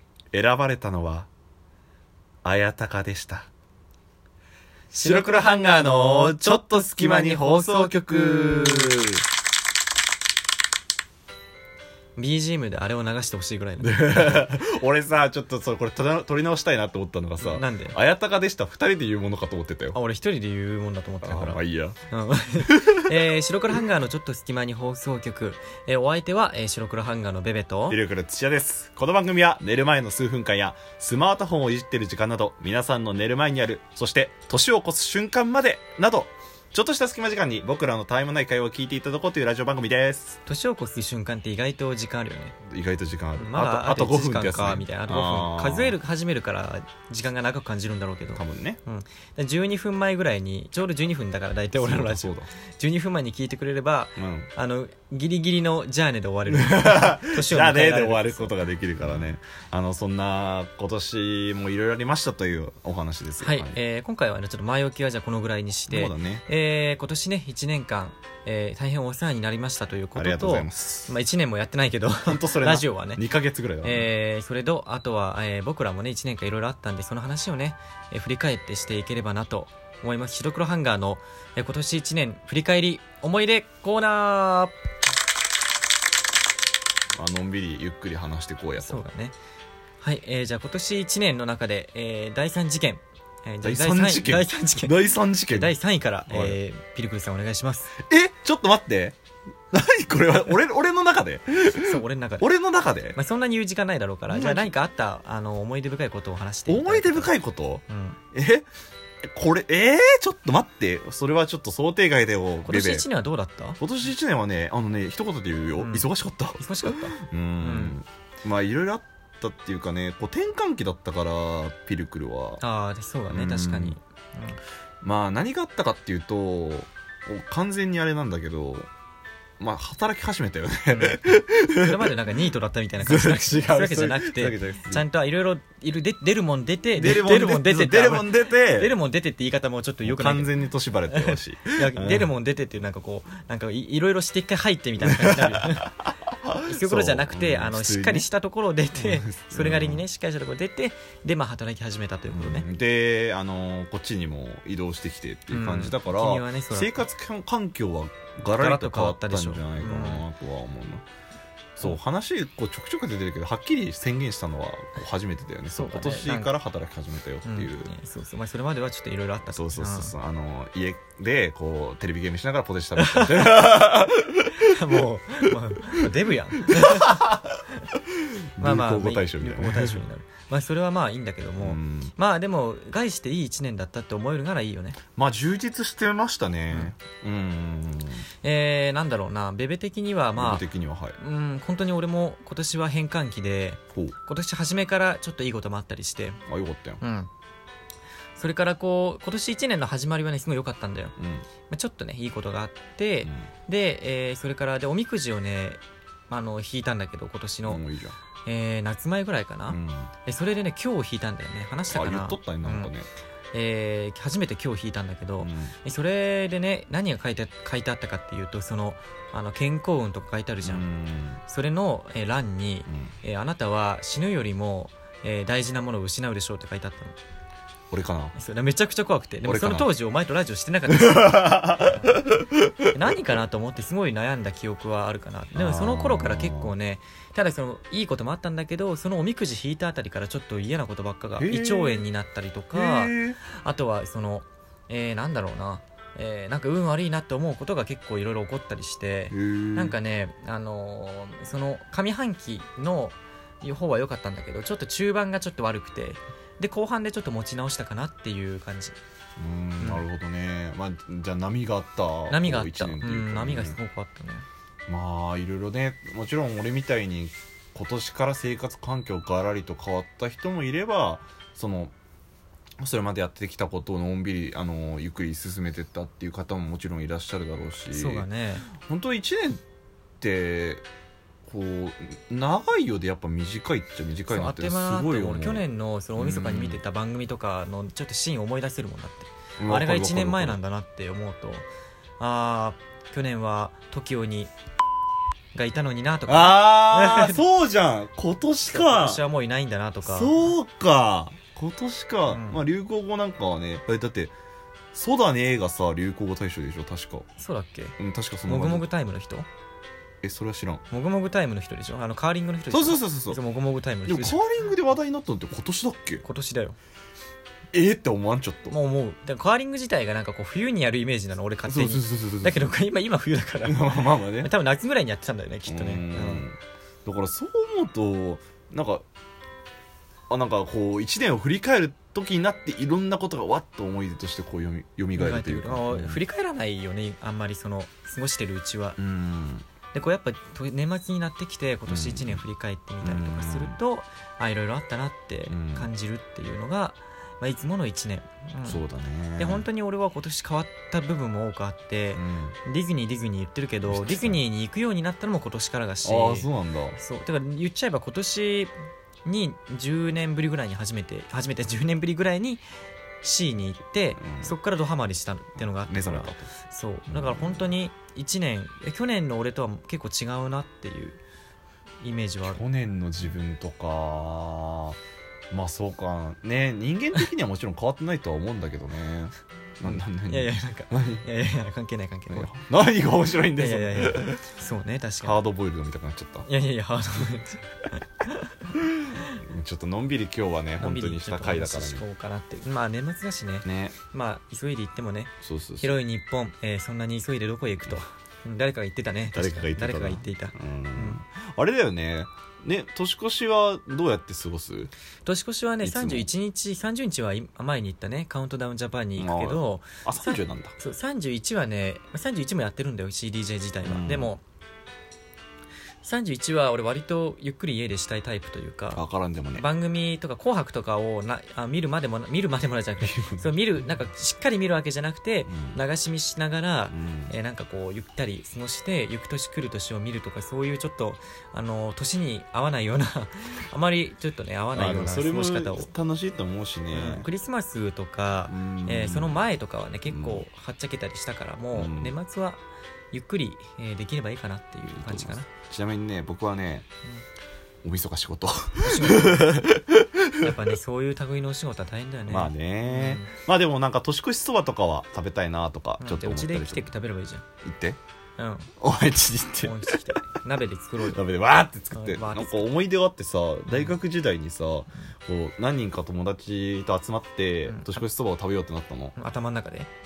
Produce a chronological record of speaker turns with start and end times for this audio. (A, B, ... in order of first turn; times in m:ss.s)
0:00.3-0:01.3 A
0:02.4-0:03.5 A
0:04.9-0:09.2 A
0:12.2-0:14.4 B
0:13.8-0:20.0 A
0:17.4-0:18.0 B
0:19.9-0:28.0 B
0:21.2-0:22.0 A
0:22.6-0:23.3 A
0:27.9-0:40.4 A
0:40.4-0:42.6 B
0:42.7-0:46.0 A
0:43.4-0:59.3 B
0:48.4-0:48.8 A
0:51.8-0:52.5 A
0:54.2-0:54.5 A
0:56.5-1:03.8 A
1:03.4-1:13.2 B
1:05.9-1:06.4 A
1:10.1-1:11.1 A
1:12.2-1:14.1 A
1:13.8-1:24.7 B
1:27.1-1:29.0 A
1:28.8-1:29.4 B
1:30.0-1:35.0 B
1:33.6-1:35.7 A
1:35.5-1:37.9 B
1:36.3-1:36.6 A
1:38.0-1:39.2 A
1:39.7-1:43.2 A
1:41.8-1:42.5 B
1:43.1-1:47.4 B
1:44.3-1:44.7 A
1:46.7-1:48.6 A
1:47.9-1:48.2 B
1:49.2-1:53.1 A
1:52.6-1:53.8 B
1:53.8-2:02.6 A
1:55.8-1:58.0 B
2:02.6-2:04.6 B
2:03.3-2:04.0 A
2:05.0-2:08.9 A
2:09.6-2:12.1 A
2:10.9-2:20.5 B
2:13.0-2:15.0 A
2:17.0-2:19.0 A
2:20.0-2:22.3 A
2:21.1-2:25.9 B
2:25.0-2:28.3 A
2:26.6-2:32.6 B
2:29.0-2:30.0 A
2:32.3-2:41.0 A
2:35.5-2:37.1 B
2:38.5-2:40.2 B
2:41.8-2:47.9 A
2:45.7-2:46.5 B
2:47.4-2:50.2 B
2:49.4-2:55.0 A
2:53.0-2:54.0 B
2:54.6-2:57.9 B
2:56.7-2:57.4 A
2:58.1-3:00.0 A
2:58.6-3:05.0 B
3:01.6-3:02.1 A
3:05.2-3:08.2 A
3:08.4-3:10.6 B
3:10.4-3:11.2 A
3:11.2-3:16.4 B
3:16.5-3:17.0 A
3:17.0-3:17.3 B
3:18.4-3:21.1 B
3:21.2-3:21.5 A
3:21.7-3:27.8 B
3:27.6-3:28.2 A
3:28.4-3:32.9 B
3:29.7-3:30.1 A
3:31.9-3:33.1 A
3:33.5-3:40.8 B
3:35.4-3:35.7 A
3:40.6-3:41.4 A
3:41.4-3:47.2 B
3:47.9-3:48.3 A
3:48.4-3:52.1 B
3:49.4-3:49.9 A
3:50.9-3:52.9 A
3:52.9-4:19.0 B
3:55.5-3:56.7 A
4:01.4-4:02.0 A
4:02.7-4:03.4 A
4:09.3-4:10.0 A
4:19.4-4:23.8 A
4:22.3-4:24.4 B
4:24.9-4:31.9 A
4:32.8-4:38.3 A
4:37.9-4:38.7 B
4:38.8-4:39.6 A
4:40.2-4:40.8 A
4:41.4-4:45.6 A
4:44.3-4:51.6 B
4:46.2-4:46.8 A
4:49.6-4:50.6 A
4:52.2-4:54.5 B
4:55.5-4:57.4 B
4:56.3-4:59.2 A
4:58.7-5:00.5 B
5:00.0-5:04.3 A
5:02.3-5:02.6 B
5:04.9-5:07.3 A
5:07.4-5:09.5 B
5:08.0-5:08.9 A
5:10.2-5:10.8 A
5:10.9-5:14.4 B
5:12.7-5:13.4 A
5:14.0-5:16.2 A
5:16.2-5:16.8 B
5:17.7-5:18.8 A
5:18.7-5:26.4 B
5:21.7-5:22.7 A
5:23.6-5:24.5 A
5:25.7-5:29.0 A
5:30.3-5:36.2 A
5:35.2-5:39.0 B
5:39.0-5:39.7 A
5:39.9-5:48.8 B
5:41.9-5:42.4 A
5:43.0-5:43.8 A
5:45.5-5:45.9 A
5:48.6-5:49.6 A
5:49.4-5:58.7 B
5:52.1-5:52.6 A
5:53.8-5:54.4 A
5:56.0-5:57.0 A
5:59.2-6:02.6 B
6:03.2-6:11.2 B
6:04.2-6:04.6 A
6:05.8-6:06.5 A
6:07.1-6:07.7 A
6:12.0-6:12.6 B
6:12.5-6:15.0 A
6:15.5-6:21.2 A
6:19.8-6:22.5 B
6:22.3-6:24.4 A
6:23.6-6:25.4 B
6:25.2-6:26.5 A
6:26.4-6:28.5 B
6:29.2-6:32.0 A
6:30.8-6:41.2 B
6:33.6-6:34.0 A
6:35.4-6:36.0 A
6:39.3-6:44.9 A
6:45.2-6:54.4 B
6:45.8-6:46.3 A
6:49.2-6:50.8 A
6:53.8-6:54.3 A
6:56.0-6:59.0 B
6:58.9-6:59.6 A
6:59.6-7:15.9 B
7:03.0-7:03.6 A
7:05.5-7:05.8 A
7:06.9-7:07.3 A
7:14.7-7:17.3 A
7:16.9-7:22.6 B
7:18.5-7:19.4 A
7:20.1-7:20.4 A
7:21.7-7:22.2 A
7:23.1-7:25.5 B
7:25.0-7:26.9 A
7:27.8-7:30.5 A
7:28.8-7:29.6 B
7:30.4-7:33.3 B
7:32.3-7:36.9 A
7:36.0-7:37.4 B
7:37.6-7:38.0 A
7:38.4-7:38.7 B
7:38.8-7:40.2 A
7:39.6-7:41.2 B
7:41.0-7:49.1 A
7:41.9-7:42.6 B
7:43.7-7:43.9 B
7:47.6-7:48.0 B
7:49.2-7:49.9 B